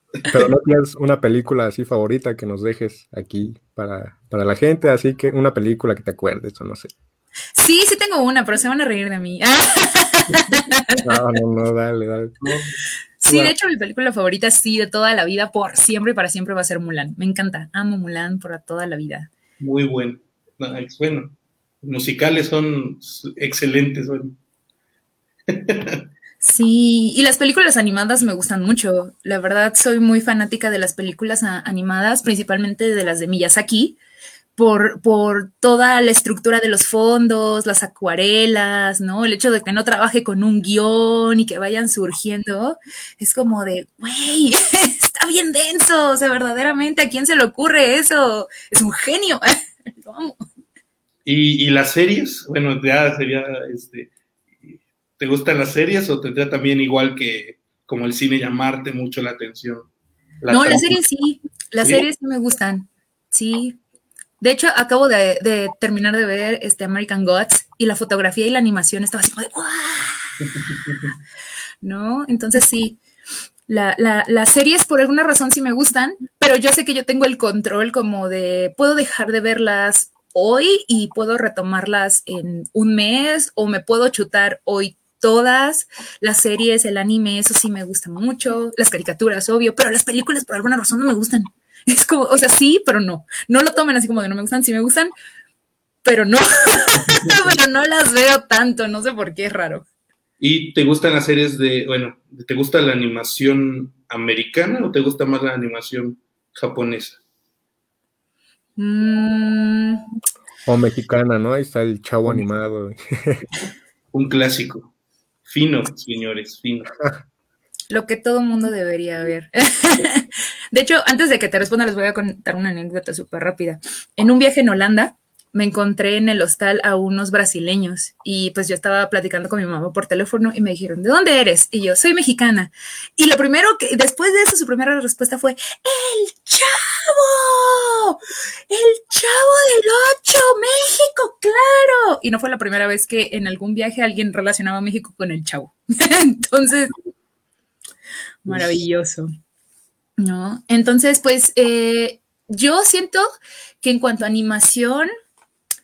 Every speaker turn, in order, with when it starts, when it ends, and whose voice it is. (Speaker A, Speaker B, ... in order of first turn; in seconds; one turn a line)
Speaker A: 0.2-6.9
Speaker B: 7.6-11.1
Speaker A: 11.0-12.6
Speaker B: 13.2-19.3
Speaker A: 13.3-13.5
Speaker C: 19.6-24.4
Speaker C: 25.5-26.0
Speaker B: 26.4-34.0
Speaker B: 34.6-50.4
Speaker C: 51.2-54.1
Speaker C: 54.6-59.9
Speaker C: 60.4-61.0
Speaker B: 60.5-63.8
Speaker B: 64.4-70.3
Speaker C: 70.4-71.1
Speaker B: 71.8-73.0
Speaker B: 73.7-95.1
Speaker B: 96.0-99.8
Speaker C: 97.0-97.5
Speaker C: 100.4-107.2
Speaker B: 108.8-110.0
Speaker A: 110.7-113.4
Speaker C: 114.1-114.9
Speaker C: 115.5-116.9
Speaker B: 117.9-146.9
Speaker B: 148.4-149.3
Speaker B: 150.2-153.2
Speaker B: 153.8-155.1